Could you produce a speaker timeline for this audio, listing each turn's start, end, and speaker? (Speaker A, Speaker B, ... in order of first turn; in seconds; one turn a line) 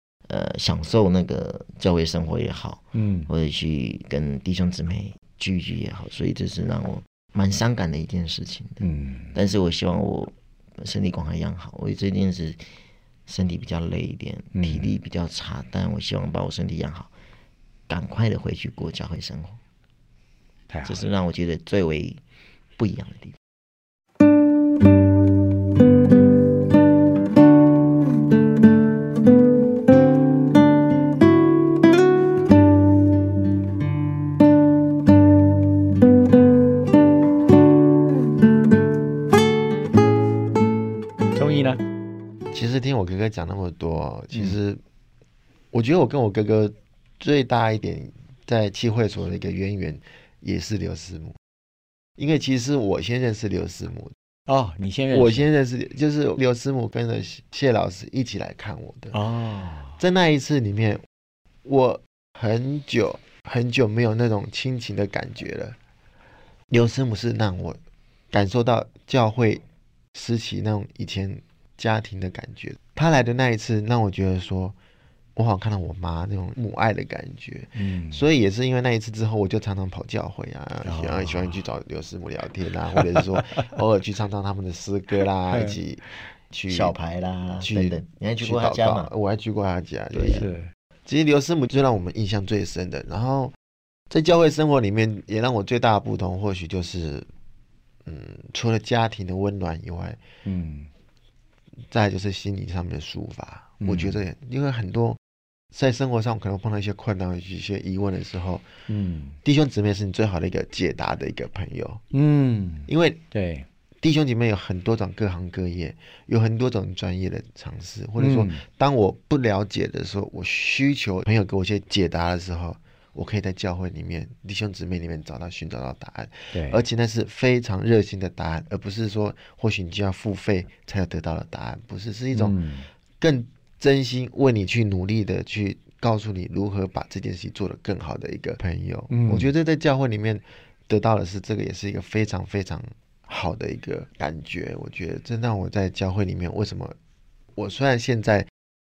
Speaker A: 0.3-12.7
Speaker B: 2.9-3.3
Speaker B: 8.8-9.3
Speaker A: 13.3-17.1
Speaker B: 14.5-14.9
Speaker A: 17.9-19.6
Speaker B: 20.7-21.0
Speaker A: 20.8-22.2
Speaker A: 22.8-23.4
Speaker B: 41.3-41.8
Speaker C: 42.5-44.8
Speaker C: 45.7-51.4
Speaker C: 52.2-54.1
Speaker B: 54.5-55.5
Speaker C: 55.1-59.2
Speaker B: 59.1-60.0
Speaker C: 60.0-61.0
Speaker C: 61.6-65.8
Speaker C: 66.7-67.8
Speaker C: 68.3-74.8
Speaker C: 75.3-86.9
Speaker B: 77.8-78.2
Speaker B: 80.8-81.6
Speaker B: 85.5-85.8
Speaker A: 86.7-89.1
Speaker C: 87.6-90.5
Speaker B: 90.1-90.7
Speaker C: 91.0-93.5
Speaker C: 94.1-97.3
Speaker C: 98.0-100.2
Speaker B: 100.5-100.9
Speaker C: 101.9-105.2
Speaker B: 103.8-104.2
Speaker C: 105.7-108.6
Speaker B: 108.9-109.4
Speaker C: 109.4-112.0
Speaker B: 112.1-113.7
Speaker C: 112.9-113.2
Speaker C: 114.0-132.6
Speaker B: 118.2-118.6
Speaker B: 126.5-126.8
Speaker B: 132.3-132.9
Speaker C: 133.2-146.9
Speaker B: 139.1-139.5
Speaker C: 147.6-148.5